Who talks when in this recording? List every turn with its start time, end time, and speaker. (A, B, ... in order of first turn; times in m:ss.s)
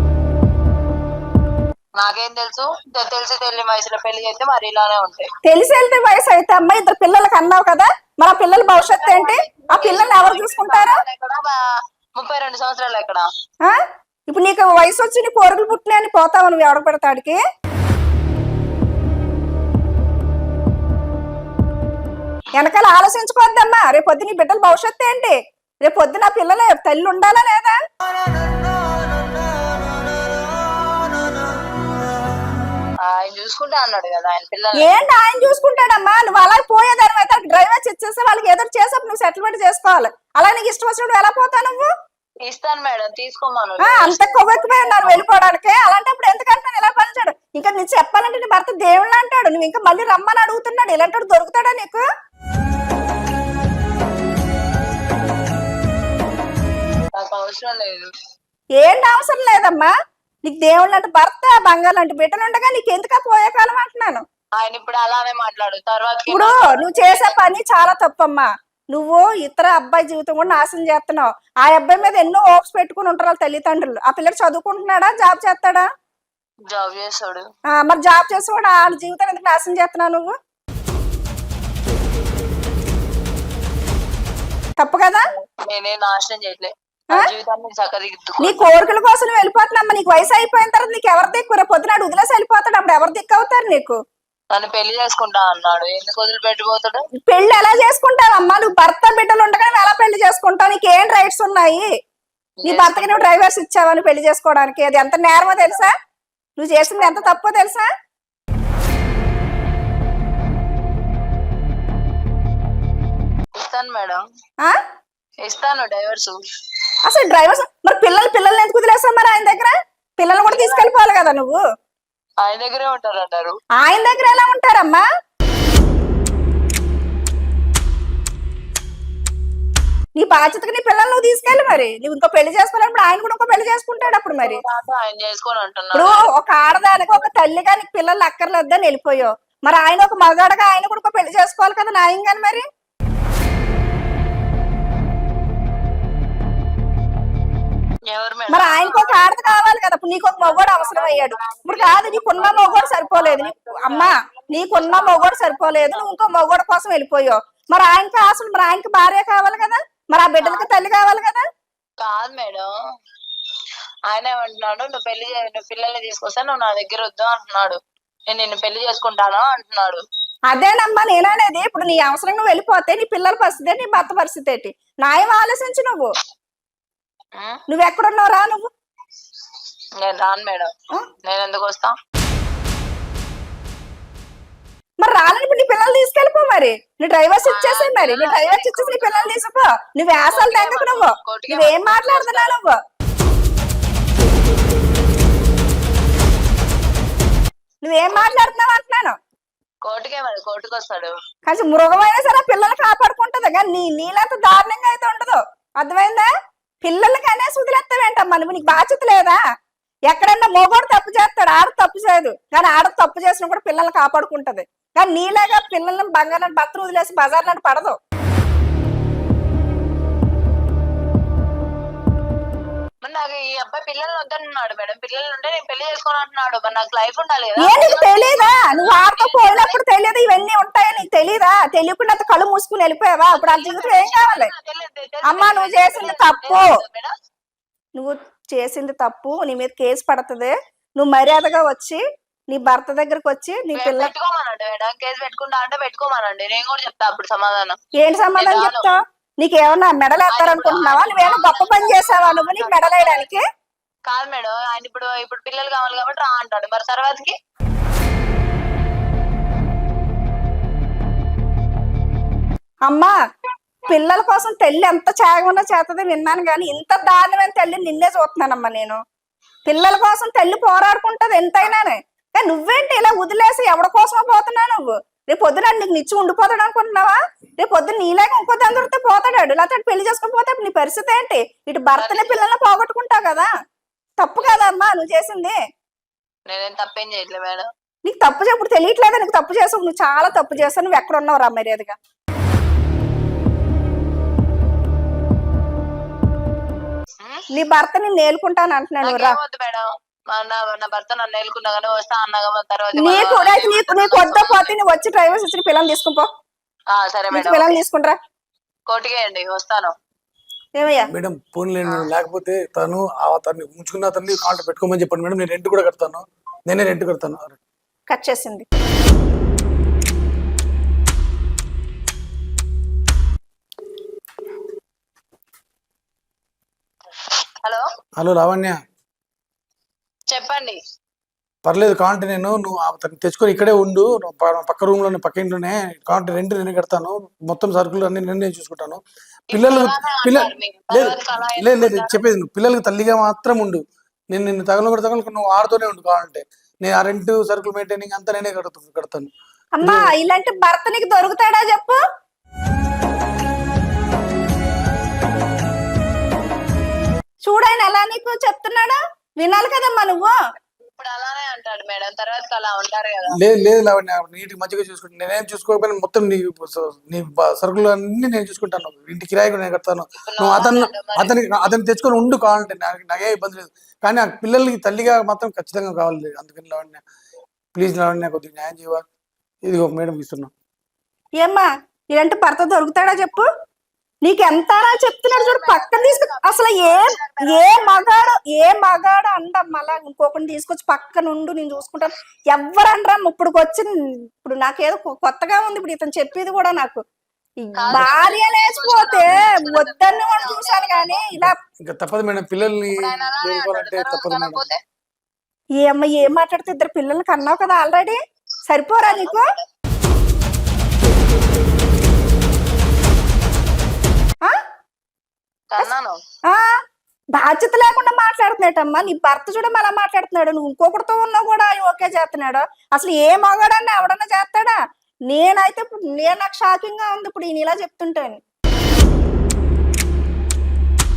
0:02.0-0:05.3 A
0:05.4-0:11.0 B
0:08.7-0:11.6 A
0:12.2-0:13.3 A
0:14.3-0:17.4 B
0:22.5-0:27.8 B
0:33.0-0:34.8 A
0:34.8-0:41.9 B
0:42.4-0:45.2 A
0:43.8-0:52.0 B
0:57.1-0:58.1 A
0:58.8-0:59.9 B
1:00.4-1:04.2 B
1:04.6-1:07.5 A
1:06.3-1:15.8 B
1:16.7-1:17.4 A
1:17.7-1:20.3 B
1:24.8-1:25.2 B
1:25.6-1:28.7 A
1:28.4-1:34.0 B
1:34.5-1:37.0 A
1:37.2-1:41.9 B
1:42.6-1:43.3 A
1:42.6-1:45.9 B
1:46.6-1:47.9 B
1:46.8-1:47.4 A
1:53.5-1:54.2 A
1:55.4-1:56.4 A
1:57.0-2:01.6 B
2:00.4-2:00.9 A
2:02.4-2:03.6 A
2:03.8-2:05.0 B
2:10.2-2:14.6 B
2:14.0-2:17.2 A
2:15.9-2:22.6 B
2:28.1-2:29.2 A
2:28.5-2:41.4 B
2:30.4-2:36.1 A
2:40.4-2:40.7 A
2:42.0-2:42.7 A
2:44.1-2:47.8 A
2:48.3-2:50.0 A
2:50.5-2:56.1 B
2:57.7-2:58.7 B
3:00.0-3:00.7 A
3:01.2-3:01.9 A
3:05.0-3:12.8 B
3:07.4-3:09.3 A
3:10.3-3:12.5 A
3:17.8-3:19.2 B
3:18.1-3:18.5 A
3:19.8-3:21.1 A
3:21.4-3:26.3 B
3:26.8-3:29.4 B
3:30.1-3:38.0 B
3:43.0-3:49.8 A
3:47.6-3:54.5 B
3:53.3-3:57.1 A
3:55.3-3:56.8 B
3:58.0-4:04.1 B
4:03.7-4:07.8 A
4:08.0-4:13.4 B
4:08.4-4:08.9 A
4:10.3-4:13.3 A
4:14.1-4:17.4 A
4:22.9-4:23.1 B
4:23.9-4:29.0 B
4:29.6-4:43.5 B
4:42.0-4:42.4 A
4:44.2-4:45.6 B
4:44.4-4:44.7 A
4:46.5-4:47.7 A
4:48.1-4:52.0 B
4:57.5-4:59.4 B
4:59.0-5:04.7 A
5:02.9-5:06.3 B
5:06.9-5:07.8 A
5:07.3-5:08.2 B
5:08.9-5:09.9 A
5:10.8-5:11.1 B
5:11.1-5:17.6 C
5:18.1-5:18.6 B
5:28.2-5:28.8 C
5:30.3-5:30.8 A
5:31.6-5:49.3 C
5:39.5-5:42.2 A
5:49.8-5:52.0 B
5:49.8-5:50.1 C
5:57.4-6:00.3 B
6:00.9-6:03.4 A
6:03.3-6:17.0 C
6:10.2-6:11.4 A
6:17.8-6:19.0 C
6:19.7-6:20.5 C
6:21.4-6:23.5 B
6:24.2-6:33.9 B
6:25.2-6:28.3 A
6:34.4-6:37.0 B
6:37.6-6:41.5 B
6:37.8-6:41.3 A
6:41.4-6:44.6 C
6:42.9-6:44.8 A
6:45.8-6:49.5 B
6:49.0-6:49.7 A
6:55.7-6:56.2 A
6:57.4-7:04.8 B
7:05.3-7:08.4 B